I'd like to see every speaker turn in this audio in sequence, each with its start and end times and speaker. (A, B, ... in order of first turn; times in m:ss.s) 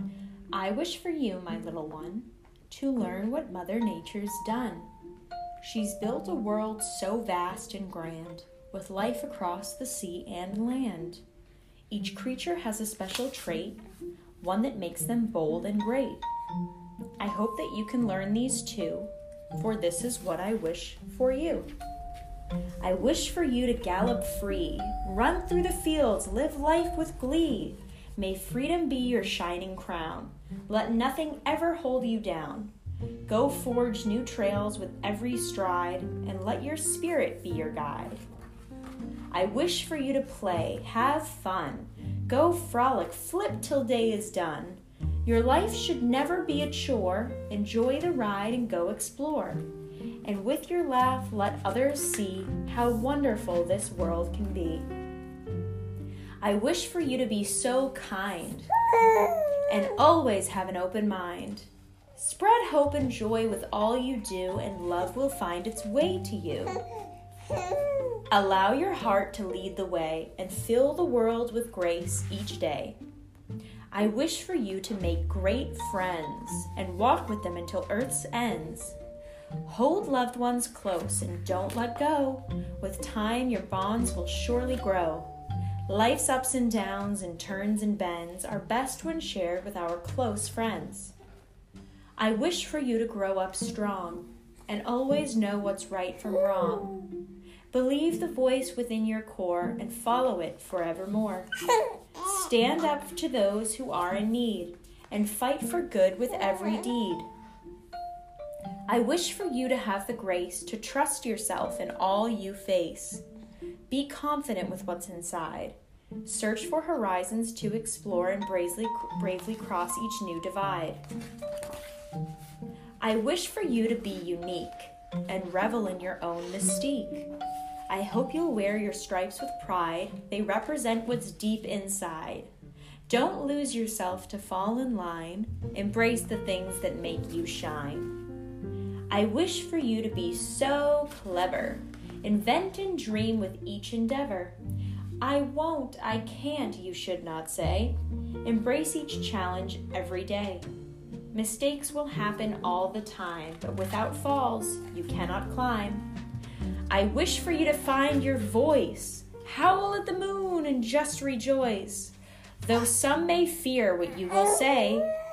0:00.5-0:04.9 A
0:05.6-0:11.2 A
0:11.9-0:13.8 A
0:14.4-0:16.2 A
0:17.2-0:21.7 A
0:22.8-0:32.7 A
0:33.3-0:38.2 A
0:39.3-0:49.6 A
0:50.2-0:54.9 A
0:56.4-0:58.7 A
0:59.7-1:06.8 A
1:08.3-1:13.0 A
1:13.9-1:19.0 A
1:19.6-1:25.3 A
1:25.9-1:31.1 A
1:32.2-1:37.1 A
1:37.7-1:41.5 A
1:42.2-1:47.2 A
1:48.9-1:53.2 A
1:53.9-2:01.0 A
2:03.0-2:07.3 A
2:07.9-2:12.5 A
2:13.1-2:18.2 A
2:19.1-2:24.6 A
2:25.2-2:30.7 A
2:31.3-2:36.1 A
2:36.9-2:45.1 A